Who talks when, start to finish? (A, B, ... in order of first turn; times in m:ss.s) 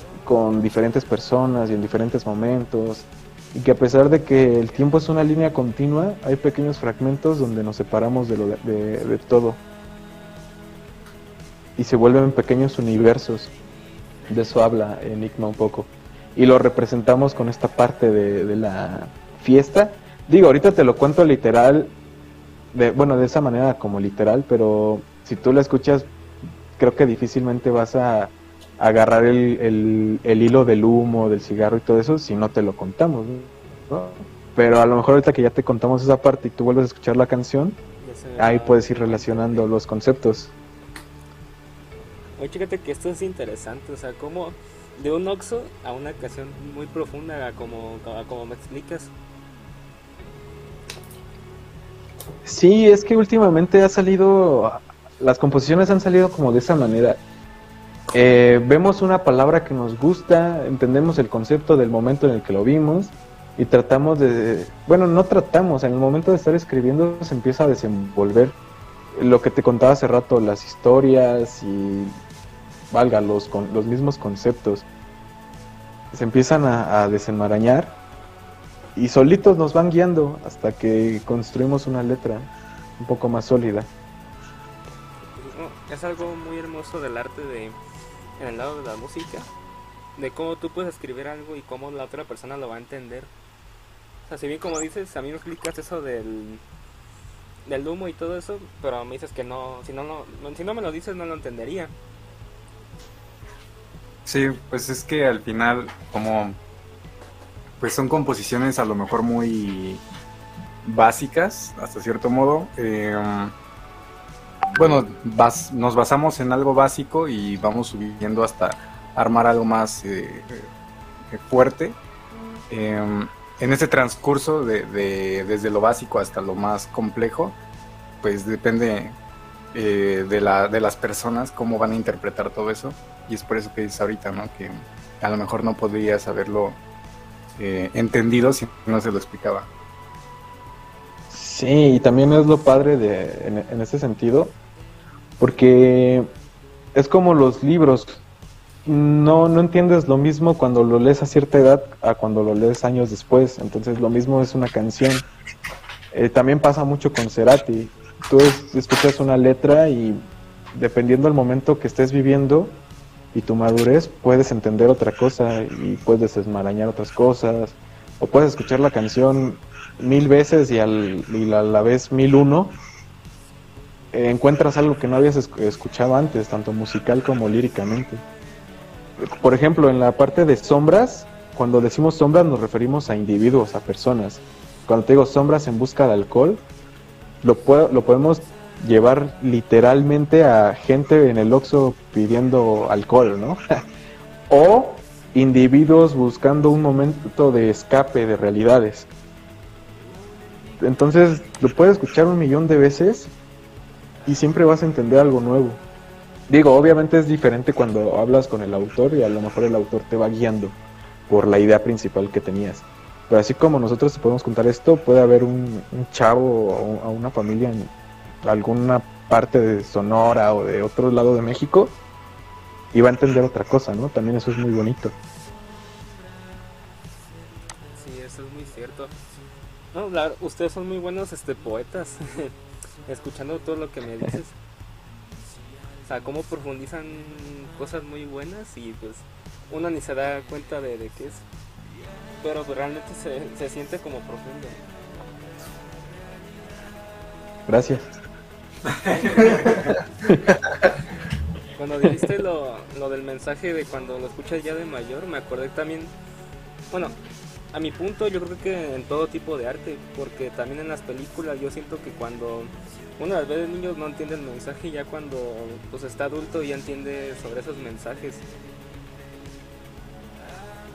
0:00.2-0:09.6 A
0:11.8-0:13.5 A
0:14.3-0:21.9 A
0:22.7-0:26.1 A
0:26.8-0:37.8 A
0:38.0-0:39.7 B
0:38.4-0:40.5 A
0:42.4-0:49.1 B
0:52.4-0:57.2 A
0:58.1-1:08.6 A
1:09.1-1:12.2 A
1:12.9-1:14.9 A
1:16.1-1:18.0 A
1:18.9-1:23.9 A
1:25.3-1:27.8 B
1:28.4-1:29.5 B
1:30.2-1:33.3 B
1:34.3-1:36.6 B
1:37.6-1:41.9 B
1:44.2-1:46.6 C
1:47.8-1:50.0 C
1:50.8-1:53.6 C
1:54.7-2:00.7 C
2:01.3-2:02.0 C
2:02.7-2:07.6 C
2:08.2-2:09.2 C
2:09.7-2:16.8 C
2:17.6-2:19.7 C
2:21.3-2:24.6 A
2:25.4-2:26.3 A
2:26.9-2:28.2 A
2:28.8-2:35.2 A
2:36.1-2:40.2 A
2:40.7-2:42.8 A
2:43.3-2:52.8 A
2:54.1-2:58.2 A
2:59.2-3:06.6 A
3:07.4-3:13.6 A
3:14.5-3:19.1 A
3:20.8-3:23.3 A
3:24.2-3:25.8 A
3:26.5-3:30.8 A
3:31.3-3:37.9 A
3:38.4-3:42.0 A
3:42.9-3:45.1 A
3:47.9-3:49.1 B
3:49.9-3:52.6 B
3:53.1-3:54.6 B
3:56.1-4:01.4 B
4:02.4-4:04.8 B
4:07.7-4:08.1 A
4:11.8-4:16.1 B
4:16.9-4:17.1 B
4:17.7-4:28.4 B